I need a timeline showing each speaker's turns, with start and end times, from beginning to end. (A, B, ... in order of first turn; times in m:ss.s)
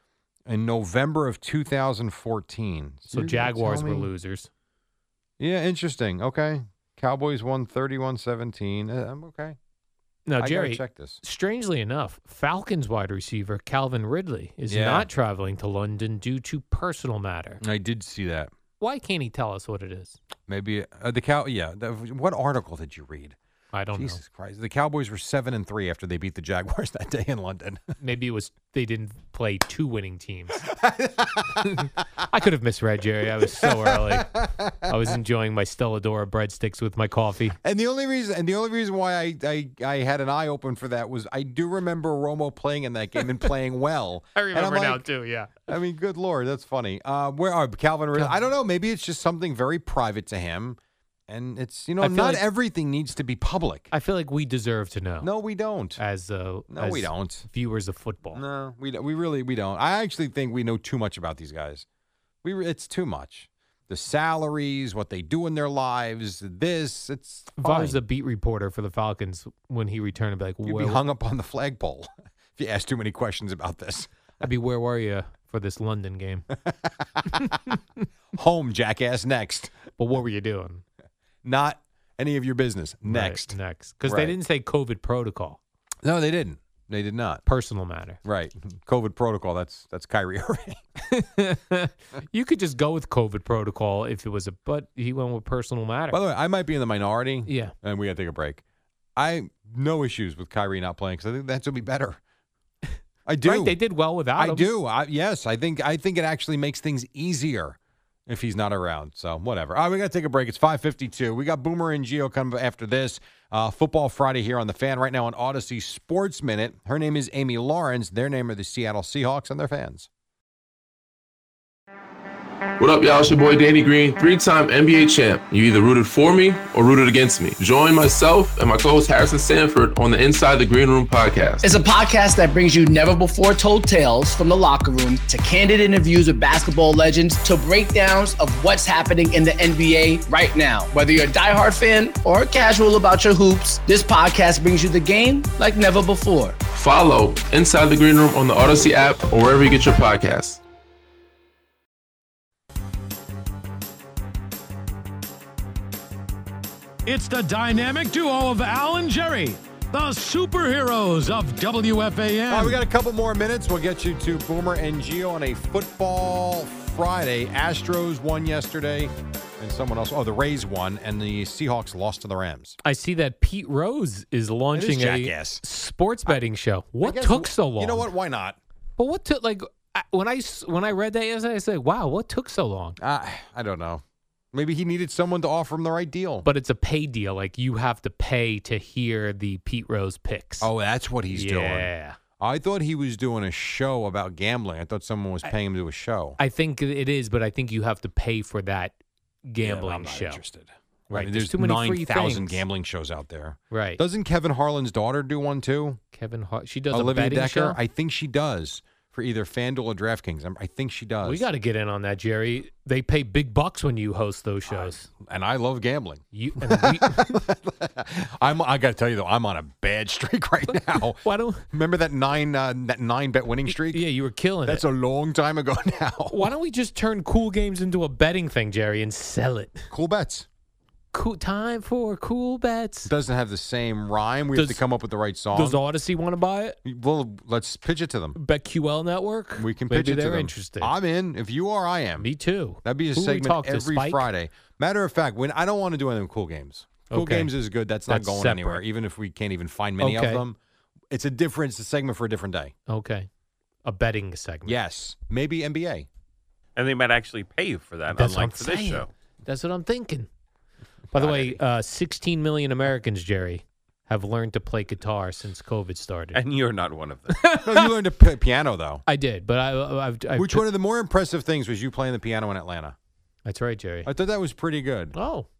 0:00.5-0:04.1 A
0:03.1-0:04.5 B
0:05.4-0:09.6 A
0:10.3-0:17.6 B
0:10.4-0:11.2 A
0:14.7-0:15.1 A
0:17.6-0:18.5 A
0:18.8-0:20.2 B
0:20.5-0:23.4 A
0:23.7-0:24.2 B
0:24.0-0:27.8 A
0:28.0-0:30.6 B
0:30.6-0:31.9 A
0:31.6-0:34.3 B
0:33.6-0:35.0 A
0:34.9-0:37.6 B
0:37.6-0:45.0 A
0:44.3-0:45.7 B
0:45.7-0:53.9 A
0:48.1-0:48.4 B
0:52.0-0:52.4 B
0:53.9-0:55.3 B
0:55.2-0:56.0 A
0:56.0-0:58.4 B
0:56.7-0:57.5 A
0:58.3-1:01.8 A
1:02.4-1:08.0 A
1:07.6-1:11.0 B
1:10.7-1:14.1 A
1:14.4-1:16.5 B
1:16.7-1:17.6 A
1:17.3-1:18.0 B
1:18.3-1:19.8 A
1:20.0-1:20.8 B
1:21.4-1:24.3 A
1:23.0-1:25.6 B
1:26.0-1:27.4 A
1:27.4-1:28.2 B
1:28.2-1:30.8 A
1:31.0-1:36.2 B
1:36.1-1:38.6 A
1:37.5-1:37.7 B
1:39.2-1:42.2 A
1:43.3-1:43.8 A
1:43.4-1:44.7 B
1:44.4-2:00.1 A
2:02.8-2:11.6 C
2:11.6-2:26.6 D
2:26.7-2:30.6 C
2:37.0-2:42.8 E
2:42.5-2:52.8 A
2:52.8-2:58.1 B
2:54.7-2:55.6 A
2:57.0-2:58.6 A
2:59.0-3:03.0 B
3:03.0-3:06.4 A
3:06.4-3:10.7 B
3:10.6-3:16.4 A
3:11.3-3:12.2 B
3:16.4-3:18.9 B
3:19.4-3:20.4 B
3:19.6-3:26.0 A
3:21.1-3:22.6 B
3:23.7-3:24.0 B
3:26.1-3:27.8 B
3:26.9-3:31.4 A
3:31.2-3:35.0 B
3:34.7-3:44.0 A
3:36.3-3:37.2 B
3:40.7-3:41.6 B
3:43.7-3:44.8 B
3:44.7-3:46.5 A
3:46.3-3:49.9 B
3:49.9-3:50.5 A
3:51.1-3:53.1 B
3:53.0-3:55.8 A
3:54.5-3:54.8 B
3:55.5-3:56.8 B
3:56.9-3:58.4 A
3:58.3-4:00.9 B
3:59.6-4:02.3 A
4:02.2-4:04.3 B
4:02.8-4:10.6 A
4:07.1-4:07.5 B
4:08.1-4:08.8 B
4:10.0-4:10.4 B
4:11.1-4:12.7 A
4:12.9-4:13.3 B
4:13.8-4:14.8 B
4:14.7-4:16.1 A
4:16.8-4:19.1 F
4:18.1-4:20.3 B
4:21.1-4:26.4 B
4:21.1-4:21.5 A
4:26.3-4:27.3 F
4:27.3-4:27.9 B
4:27.6-4:29.0 A
4:29.0-4:30.7 B
4:30.3-4:33.0 A
4:33.4-4:34.1 B
4:34.0-4:35.1 A
4:35.1-4:35.5 B